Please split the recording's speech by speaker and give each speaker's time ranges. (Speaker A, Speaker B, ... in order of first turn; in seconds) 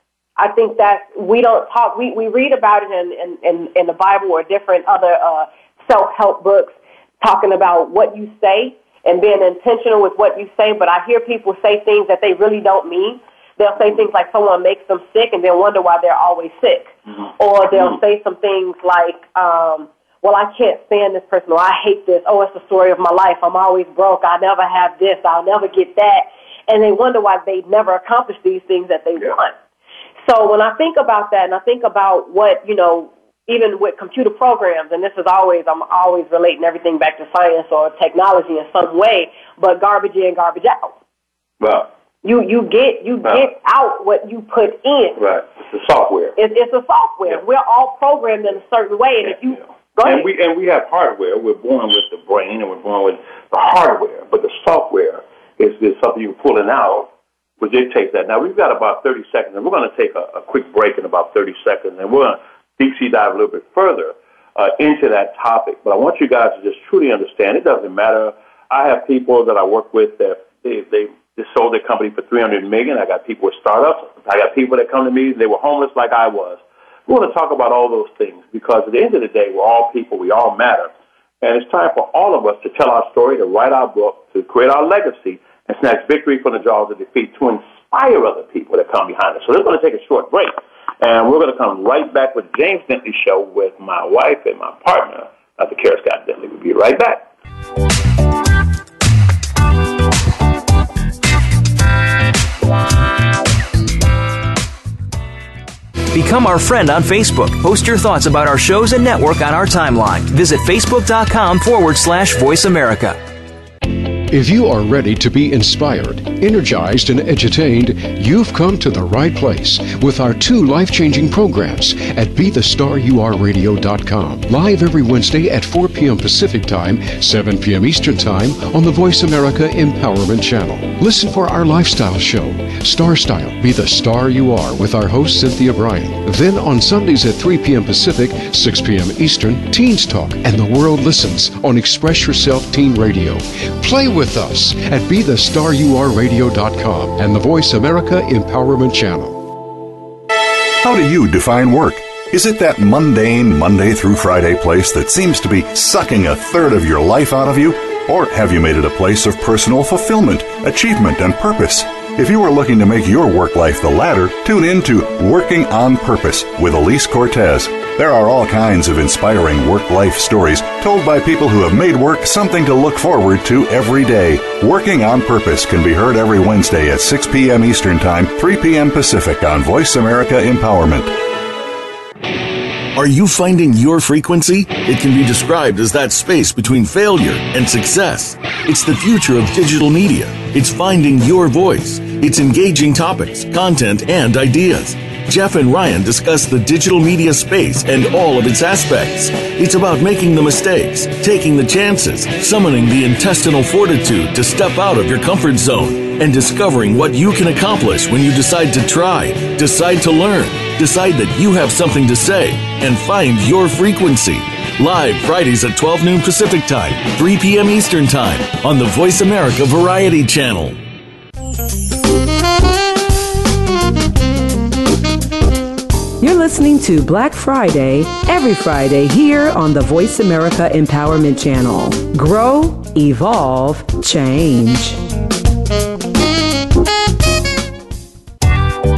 Speaker A: 0.4-29.6, 30.2-40.9, 42.2-45.2, 46.4-50.3
Speaker B: 41.6-41.9, 45.2-46.4, 50.0-80.9, 81.4-97.3
Speaker C: 106.1-113.2
Speaker D: 114.3-149.5
Speaker E: 150.8-181.2
Speaker F: 182.9-220.8
Speaker G: 226.2-235.0